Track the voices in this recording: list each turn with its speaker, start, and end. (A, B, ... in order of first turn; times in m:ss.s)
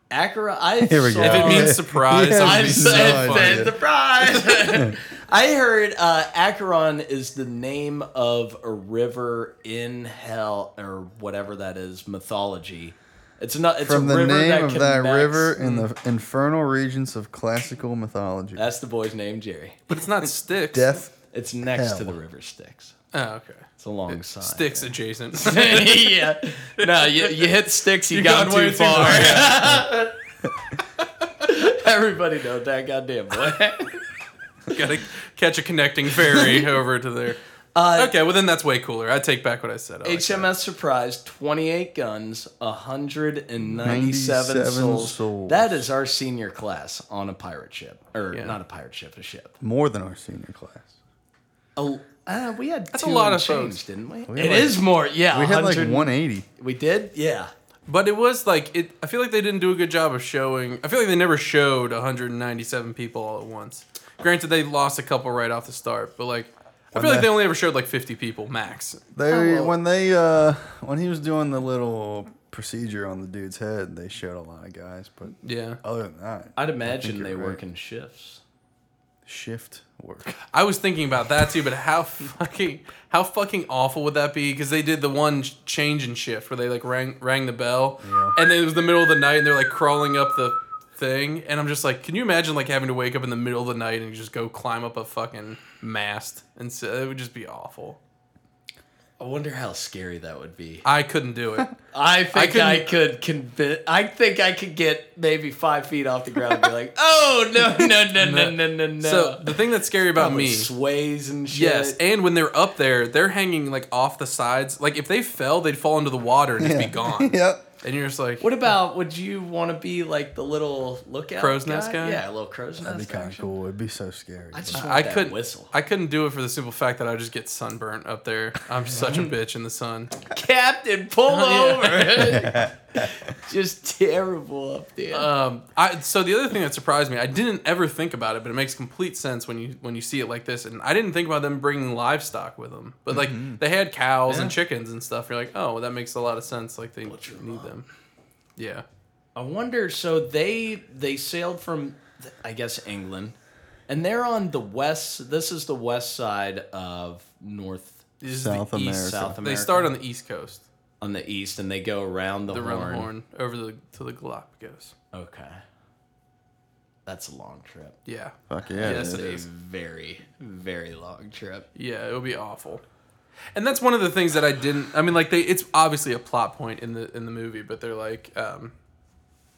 0:00.1-0:01.8 A
0:00.8-0:05.0 B
0:01.2-0:03.7 C
0:02.4-0:15.5 A
0:13.8-0:18.6 B
0:15.6-0:15.9 C
0:18.6-0:19.9 A
0:19.9-0:21.0 C
0:20.7-0:21.1 B
0:21.3-0:23.0 A
0:21.7-0:22.2 B
0:23.1-0:26.2 C
0:23.8-0:30.2 A
0:26.8-0:27.5 C
0:28.1-0:29.7 C
0:31.4-0:34.0 A
0:34.7-0:37.4 C
0:36.2-0:36.6 A
0:37.8-0:38.1 A
0:38.0-0:40.5 C
0:40.0-0:49.5 A
0:43.8-0:45.9 B
0:48.3-0:48.6 C
0:49.6-0:50.9 B
0:51.8-0:57.5 A
0:52.9-0:53.8 C
0:54.3-0:56.5 B
0:57.9-1:09.0 C
1:06.9-1:07.3 B
1:09.2-1:17.6 B
1:09.3-1:09.7 A
1:15.4-1:15.8 C
1:16.6-1:18.4 A
1:19.2-1:20.4 B
1:20.5-1:38.0 C
1:28.0-1:28.4 B
1:39.2-1:40.8 A
1:40.8-1:41.7 C
1:41.9-1:49.6 A
1:42.3-1:42.9 C
1:48.2-1:50.7 C
1:50.2-1:52.0 A
1:51.5-1:58.4 C
1:56.6-1:57.6 B
1:58.4-2:03.5 A
2:01.4-2:02.2 C
2:02.8-2:04.8 B
2:04.5-2:05.7 A
2:04.7-2:10.1 C
2:09.0-2:09.3 B
2:10.3-2:15.3 A
2:11.3-2:12.4 C
2:12.2-2:13.2 B
2:15.1-2:27.8 C
2:23.1-2:23.6 B
2:24.3-2:24.6 A
2:27.0-2:27.7 A
2:28.6-2:28.8 C
2:29.4-2:33.4 A
2:33.9-2:38.1 A
2:38.2-2:40.6 C
2:38.3-2:39.4 B
2:39.0-2:39.9 A
2:41.0-2:43.1 A
2:42.5-2:44.9 C
2:45.1-2:45.6 A
2:47.1-2:48.0 A
2:48.1-2:49.5 C
2:48.5-2:49.3 B
2:48.6-2:51.7 A
2:51.8-2:52.8 C
2:53.5-2:58.7 C